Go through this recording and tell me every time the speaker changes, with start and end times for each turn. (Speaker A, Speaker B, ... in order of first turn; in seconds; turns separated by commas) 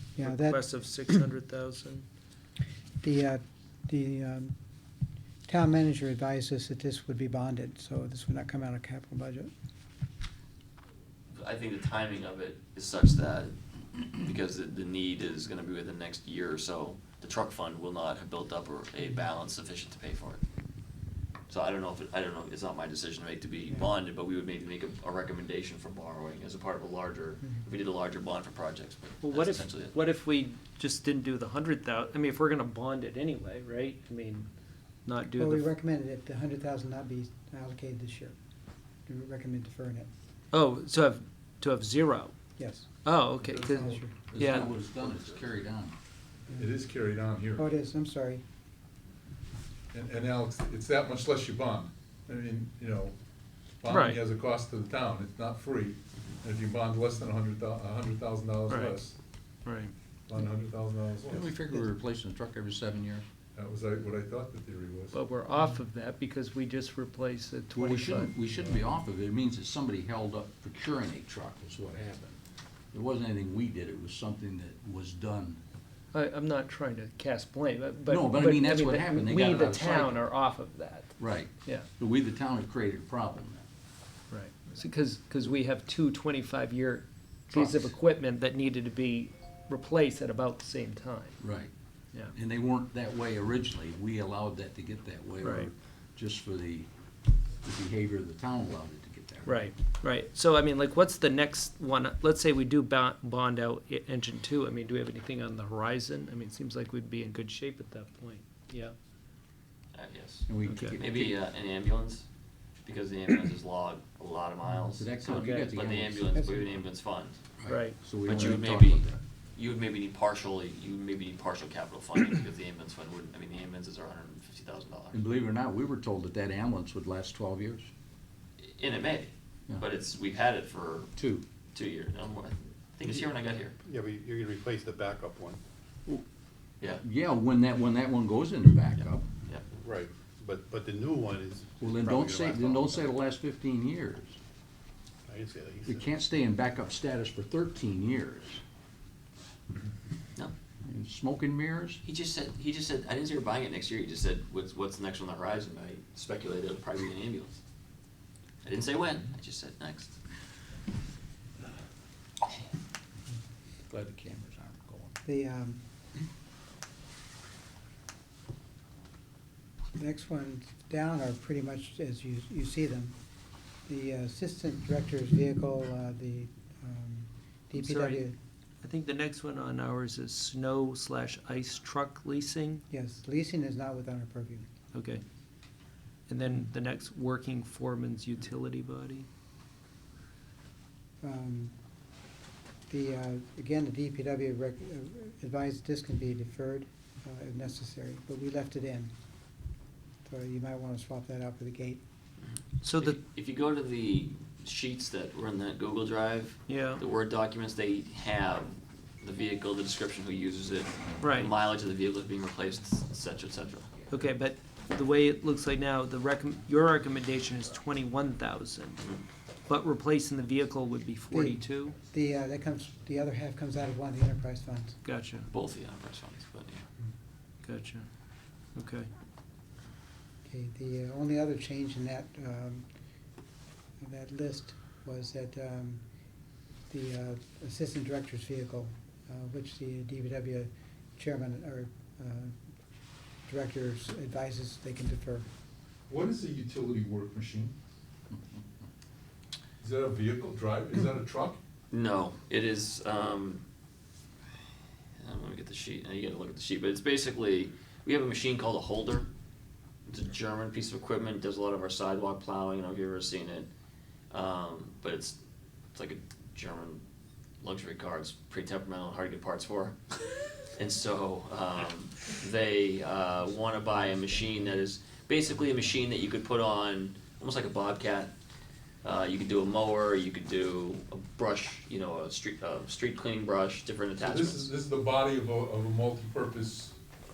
Speaker A: 0.2-0.7, Speaker B: 0.2-2.1, Speaker A: 3.0-4.5, Speaker A: 5.5-9.5, Speaker C: 11.3-13.5, Speaker C: 14.2-20.4, Speaker C: 21.5-29.9, Speaker B: 29.2-34.5, Speaker B: 35.0-35.7, Speaker A: 35.4-38.3, Speaker A: 39.1-40.1, Speaker B: 40.5-42.3, Speaker A: 42.6-42.9, Speaker B: 43.0-44.7, Speaker D: 43.4-45.4, Speaker A: 43.6-44.1, Speaker E: 44.3-45.9, Speaker D: 46.5-47.7, Speaker A: 47.5-48.4, Speaker D: 49.9-53.1, Speaker D: 53.8-59.1, Speaker B: 53.9-54.2, Speaker B: 58.7-59.0, Speaker B: 59.6-59.9, Speaker D: 60.3-61.6, Speaker E: 61.3-63.2, Speaker D: 63.5-65.2, Speaker B: 65.1-68.4, Speaker E: 67.7-72.4, Speaker E: 72.9-75.6, Speaker B: 76.1-81.9, Speaker E: 78.1-80.3, Speaker E: 81.2-83.6, Speaker B: 84.3-91.4, Speaker E: 87.5-87.9, Speaker E: 91.4-91.7, Speaker E: 92.3-96.9, Speaker B: 95.4-95.7, Speaker E: 97.6-99.7, Speaker B: 99.4-108.9, Speaker C: 109.9-112.2, Speaker E: 110.5-111.4, Speaker B: 110.7-111.0, Speaker C: 112.8-117.4, Speaker E: 115.0-116.5, Speaker B: 115.3-115.8, Speaker E: 117.6-119.2, Speaker B: 117.7-118.0, Speaker C: 118.2-125.2, Speaker E: 125.1-127.9, Speaker C: 128.6-131.1, Speaker E: 131.2-131.4, Speaker C: 131.7-133.8, Speaker F: 133.8-135.6, Speaker E: 137.0-139.3, Speaker C: 139.0-139.6, Speaker F: 139.8-143.1, Speaker E: 141.8-144.4, Speaker F: 145.3-146.1, Speaker E: 145.8-148.6, Speaker E: 150.8-152.0, Speaker C: 152.0-157.6, Speaker C: 158.6-160.1, Speaker E: 163.9-165.2, Speaker A: 165.2-165.8, Speaker A: 169.9-173.2, Speaker A: 173.9-178.4, Speaker B: 177.7-178.2, Speaker B: 178.8-182.8, Speaker A: 182.9-184.7, Speaker B: 184.9-185.2, Speaker B: 186.3-189.3, Speaker A: 191.2-191.7, Speaker A: 192.9-199.1, Speaker A: 200.2-202.0, Speaker C: 202.4-214.1, Speaker B: 202.8-203.2, Speaker B: 206.7-207.0, Speaker B: 211.2-211.5, Speaker B: 214.1-219.1, Speaker C: 219.0-219.2, Speaker B: 219.7-222.0, Speaker A: 221.3-225.0, Speaker B: 225.0-225.5, Speaker C: 225.5-226.8, Speaker B: 227.6-228.1, Speaker B: 228.7-229.1, Speaker A: 230.4-232.8, Speaker A: 234.0-236.0, Speaker A: 236.9-242.5, Speaker A: 243.5-245.5, Speaker D: 246.1-247.8, Speaker D: 249.8-251.6, Speaker C: 251.9-253.6, Speaker C: 255.2-259.3, Speaker C: 260.1-263.7, Speaker C: 264.3-265.4, Speaker C: 265.9-267.0, Speaker C: 267.6-270.0, Speaker C: 270.8-278.3, Speaker C: 279.0-284.7, Speaker D: 284.2-286.9